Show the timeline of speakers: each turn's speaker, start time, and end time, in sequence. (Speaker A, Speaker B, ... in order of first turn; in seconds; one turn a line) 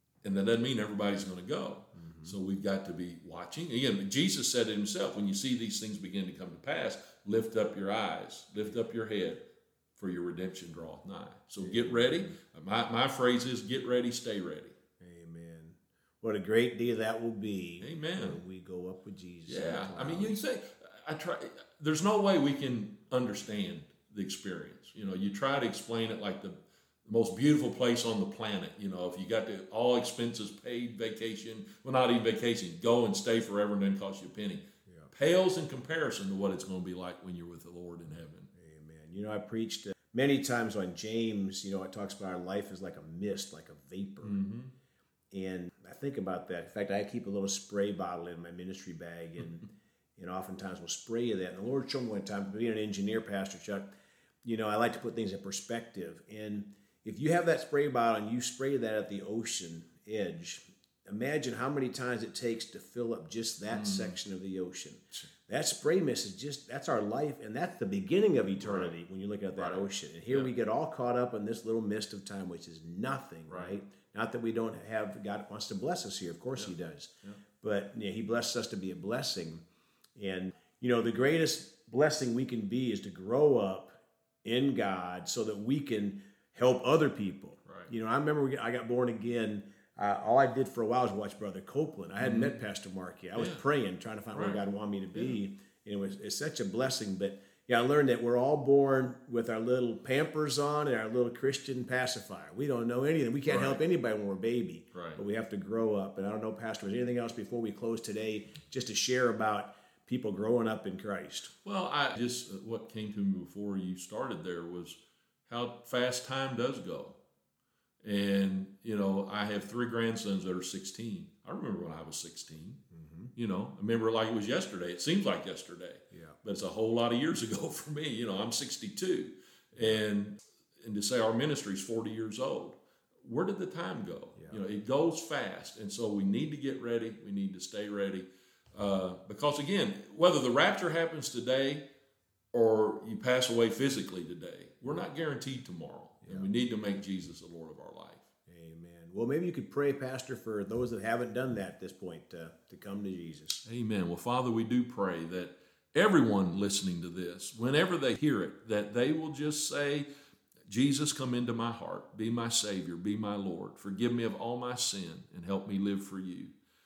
Speaker A: 0.2-9.4
Speaker B: 1.9-2.3
Speaker A: 10.0-14.7
Speaker B: 11.6-12.3
Speaker B: 15.0-20.4
Speaker A: 17.8-18.4
Speaker A: 19.5-38.5
Speaker B: 34.9-35.1
Speaker B: 38.5-44.4
Speaker A: 44.2-44.7
Speaker B: 45.3-53.9
Speaker B: 54.4-79.6
Speaker A: 63.7-64.2
Speaker A: 68.6-68.9
Speaker A: 69.6-70.5
Speaker A: 73.5-73.8
Speaker A: 76.5-77.4
Speaker B: 80.2-111.5
Speaker A: 87.7-87.9
Speaker A: 92.2-92.6
Speaker A: 93.3-93.7
Speaker A: 94.3-94.6
Speaker A: 95.1-95.4
Speaker A: 103.5-103.8
Speaker A: 104.9-105.2
Speaker A: 111.6-117.2
Speaker A: 118.0-122.8
Speaker B: 122.9-123.3
Speaker A: 123.3-141.8
Speaker B: 126.1-126.4
Speaker A: 142.5-148.2
Speaker B: 146.2-146.5
Speaker B: 148.5-153.6
Speaker A: 153.6-160.1
Speaker A: 160.7-166.5